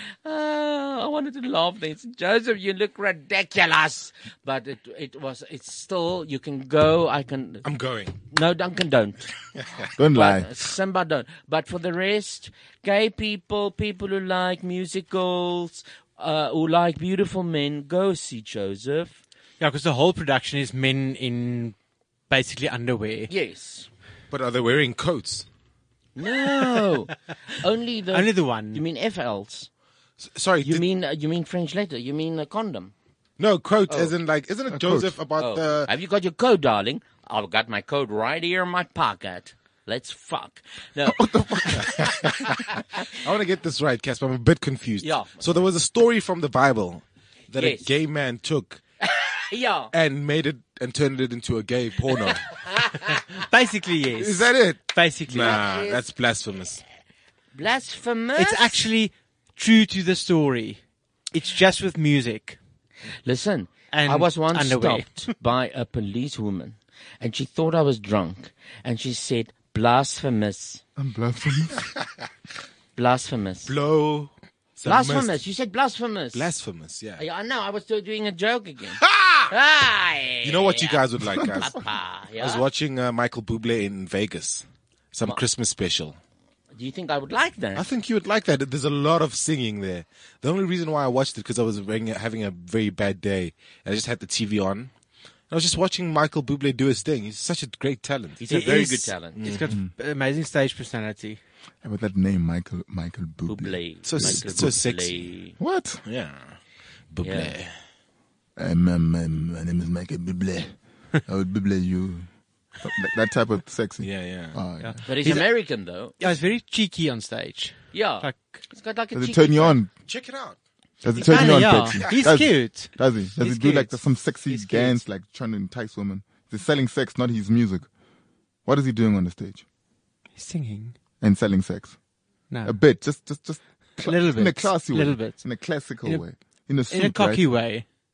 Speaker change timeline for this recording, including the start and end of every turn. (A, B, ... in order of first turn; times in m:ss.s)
0:00.2-0:07.7 A
0:07.6-0:08.2 B
0:08.3-0:09.3 A
0:10.0-0:10.5 C
0:10.1-0:19.2 A
0:19.6-0:21.8 D
0:22.3-0:23.3 D
0:23.3-0:23.9 A
0:24.3-0:25.5 B
0:26.2-0:29.7 A
0:28.1-0:28.8 D
0:30.2-0:30.8 B
0:30.6-0:32.9 A
0:33.4-0:35.9 B
0:34.7-0:35.2 C
0:35.4-0:41.2 A
0:41.1-0:42.1 C
0:41.9-0:42.6 B
0:43.1-0:48.8 B
0:45.0-0:45.6 A
0:47.6-0:47.9 A
0:49.5-0:49.9 A
0:49.9-0:52.5 B
0:52.7-0:53.1 A
0:53.4-0:55.6 D
0:54.2-0:56.8 B
0:55.4-0:56.0 A
0:57.5-0:58.8 A
0:58.4-1:02.6 D
1:03.2-1:10.8 A
1:03.9-1:05.2 D
1:11.0-1:11.8 C
1:13.0-1:13.7 A
1:13.7-1:15.4 B
1:14.8-1:16.5 A
1:16.3-1:17.2 B
1:17.2-1:21.0 A
1:19.0-1:19.5 B
1:20.4-1:26.2 B
1:21.6-1:22.6 A
1:26.7-1:27.9 A
1:27.8-1:34.9 B
1:35.5-1:38.4 B
1:38.4-1:39.4 A
1:38.5-1:41.4 D
1:39.4-1:39.7 B
1:41.8-1:44.5 C
1:43.5-1:45.6 A
1:44.0-1:45.3 B
1:45.6-1:46.0 C
1:46.0-1:46.6 B
1:47.1-1:47.7 B
1:47.2-1:47.6 A
1:48.6-1:50.8 C
1:51.3-1:52.3 C
1:52.8-1:55.0 C
1:54.0-1:54.6 B
1:54.8-1:55.5 D
1:55.1-1:56.2 A
1:56.2-1:58.6 D
1:57.9-1:59.8 A
1:59.1-1:59.9 C
2:00.1-2:00.6 B
2:01.0-2:07.9 C
2:01.2-2:04.0 D
2:01.9-2:02.3 B
2:04.5-2:05.0 D
2:08.7-2:09.6 C
2:10.4-2:11.0 D
2:11.2-2:12.0 C
2:12.5-2:12.8 D
2:12.6-2:17.6 C
2:14.0-2:15.4 D
2:16.9-2:17.8 D